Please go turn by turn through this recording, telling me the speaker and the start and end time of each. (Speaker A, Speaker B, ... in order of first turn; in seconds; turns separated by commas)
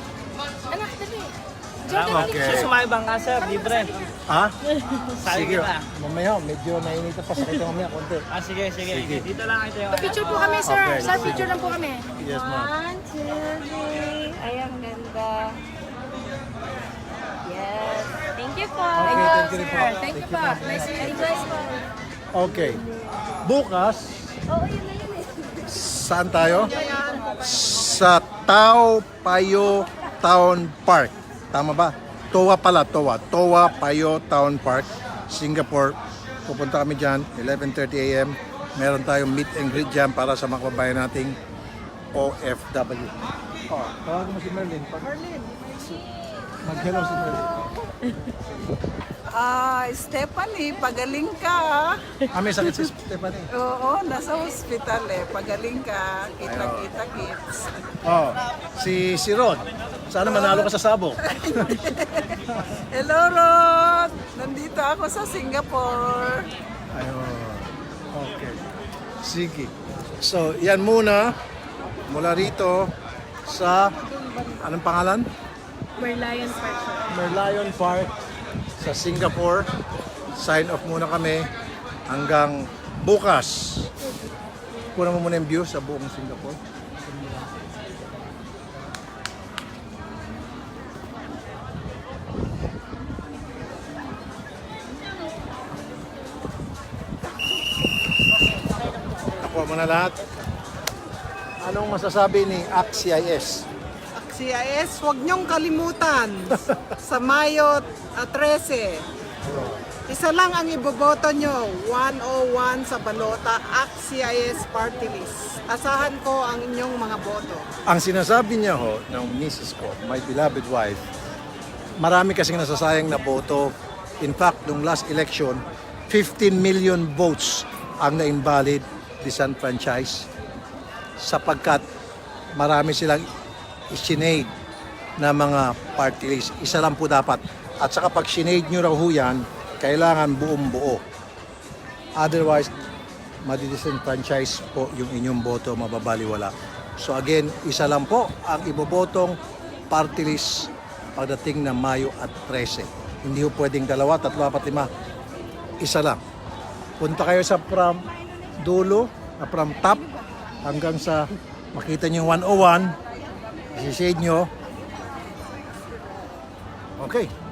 Speaker A: 0.7-1.3, Speaker A: 1.8-2.7, Speaker B: 1.9-4.0, Speaker C: 2.1-2.7, Speaker A: 3.3-4.1, Speaker C: 4.3-4.5, Speaker B: 4.9-5.8, Speaker C: 5.2-8.2, Speaker B: 8.3-10.6, Speaker C: 8.9-9.3, Speaker A: 9.9-12.1, Speaker D: 10.5-11.5, Speaker C: 10.6-11.5, Speaker C: 12.2-12.7, Speaker D: 12.3-15.6, Speaker D: 17.4-19.7, Speaker C: 18.9-21.5, Speaker A: 19.0-21.5, Speaker D: 20.8-21.8, Speaker C: 22.3-22.8, Speaker C: 23.4-24.3, Speaker D: 24.5-25.7, Speaker C: 25.7-26.8, Speaker E: 26.4-27.3, Speaker C: 27.3-41.4, Speaker C: 42.1-43.1, Speaker C: 43.7-45.3, Speaker C: 46.6-47.6, Speaker E: 49.3-51.9, Speaker C: 52.3-53.5, Speaker E: 53.5-57.7, Speaker C: 56.4-56.9, Speaker C: 58.0-61.9, Speaker E: 60.2-60.7, Speaker E: 61.2-62.3, Speaker E: 62.9-66.5, Speaker C: 66.9-68.6, Speaker C: 69.2-71.3, Speaker C: 72.1-72.9, Speaker C: 73.5-73.9, Speaker C: 74.6-75.3, Speaker A: 76.1-76.6, Speaker C: 77.1-78.1, Speaker C: 78.8-79.7, Speaker C: 80.3-81.5, Speaker C: 82.1-83.9, Speaker C: 84.9-87.5, Speaker C: 99.4-100.2, Speaker C: 101.6-103.7, Speaker E: 104.1-109.0, Speaker C: 109.5-109.8, Speaker E: 110.1-117.6, Speaker C: 117.9-121.1, Speaker C: 122.0-130.3, Speaker C: 131.2-131.8, Speaker C: 132.6-133.3, Speaker C: 133.9-134.5, Speaker C: 135.2-141.0, Speaker C: 142.2-142.7, Speaker C: 143.4-149.4, Speaker C: 149.9-154.9, Speaker C: 155.8-156.2, Speaker C: 157.0-158.1, Speaker C: 158.6-160.0, Speaker C: 160.6-162.9, Speaker C: 163.7-164.5, Speaker C: 167.0-167.3